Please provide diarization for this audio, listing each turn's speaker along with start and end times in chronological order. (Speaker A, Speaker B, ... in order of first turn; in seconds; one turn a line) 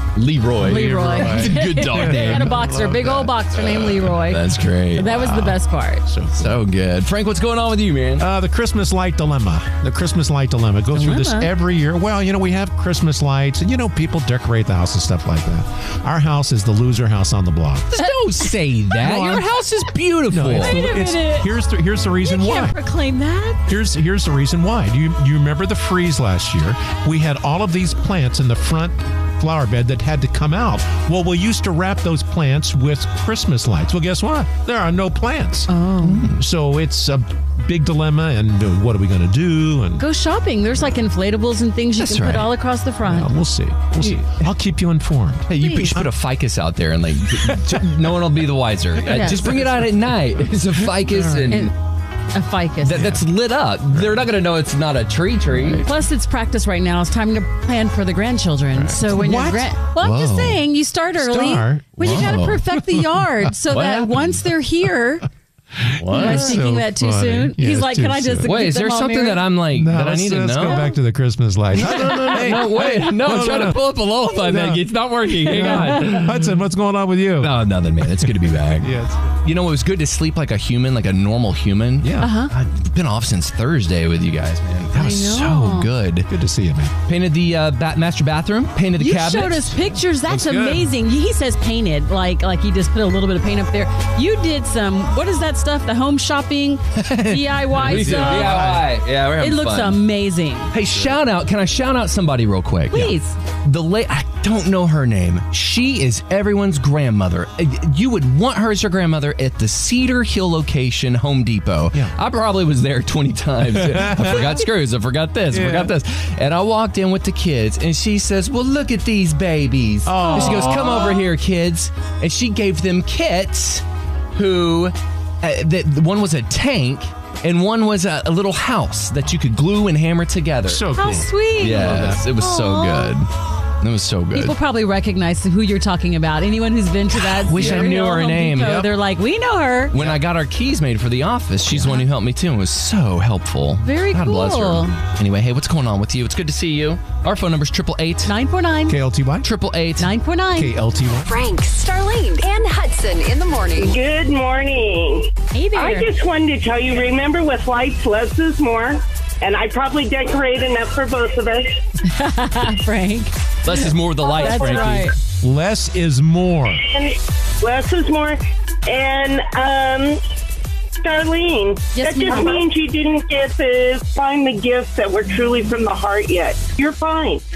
Speaker A: 0.1-2.6
Speaker B: 0.6-6.0
Speaker C: 0.6-4.1
Speaker A: 4.2-5.3
Speaker C: 5.0-6.6
Speaker A: 6.3-8.2
Speaker C: 8.2-17.9
Speaker B: 10.9-11.5
Speaker A: 17.9-20.8
Speaker C: 19.0-19.5
Speaker C: 20.3-22.8
Speaker B: 20.5-21.5
Speaker B: 22.2-23.6
Speaker C: 23.7-35.7
Speaker B: 35.7-36.2
Speaker A: 36.0-36.4
Speaker C: 36.3-40.0
Speaker B: 40.0-43.3
Speaker A: 42.0-42.5
Speaker C: 43.0-46.1
Speaker A: 44.0-44.4
Speaker A: 45.5-51.7
Speaker B: 45.6-45.9
Speaker C: 47.4-47.8
Speaker C: 49.0-50.0
Speaker B: 49.1-49.4
Speaker C: 50.8-51.5
Speaker B: 52.3-53.0
Speaker A: 52.8-55.8
Speaker C: 52.9-53.2
Speaker C: 53.9-54.3
Speaker C: 55.5-55.9
Speaker B: 55.8-65.3
Speaker C: 58.7-59.7
Speaker A: 60.0-60.6
Speaker C: 61.1-63.3
Speaker A: 62.0-62.6
Speaker A: 63.7-64.3
Speaker C: 65.8-68.5
Speaker A: 66.0-66.6
Speaker B: 66.1-69.5
Speaker A: 68.4-70.8
Speaker C: 69.7-74.8
Speaker A: 71.7-76.3
Speaker C: 75.4-79.3
Speaker B: 75.5-76.2
Speaker A: 77.4-86.3
Speaker C: 82.0-82.3
Speaker B: 82.2-82.5
Speaker B: 84.9-85.9
Speaker C: 86.3-86.9
Speaker A: 87.0-89.8
Speaker B: 89.0-98.8
Speaker C: 90.2-90.9
Speaker A: 97.0-100.0
Speaker C: 97.8-98.9
Speaker B: 99.4-100.7
Speaker A: 100.7-130.9
Speaker B: 102.9-103.3
Speaker C: 113.7-114.6
Speaker C: 115.5-115.9
Speaker C: 120.0-121.3
Speaker B: 120.2-120.7
Speaker C: 130.7-132.2
Speaker B: 130.9-133.1
Speaker A: 131.6-133.3
Speaker A: 133.8-134.5
Speaker B: 134.3-139.9
Speaker A: 137.4-138.8
Speaker C: 137.5-138.0
Speaker C: 138.6-138.9
Speaker A: 139.9-148.3
Speaker B: 143.8-145.0
Speaker B: 148.3-149.0
Speaker C: 148.9-149.5
Speaker A: 149.4-150.1
Speaker B: 150.0-150.7
Speaker C: 150.5-151.3
Speaker D: 151.2-154.0
Speaker E: 153.8-161.8
Speaker B: 155.5-156.1
Speaker B: 162.1-165.2
Speaker A: 163.6-165.1
Speaker C: 165.4-166.8
Speaker E: 166.9-170.2
Speaker E: 171.0-177.4
Speaker B: 171.9-172.6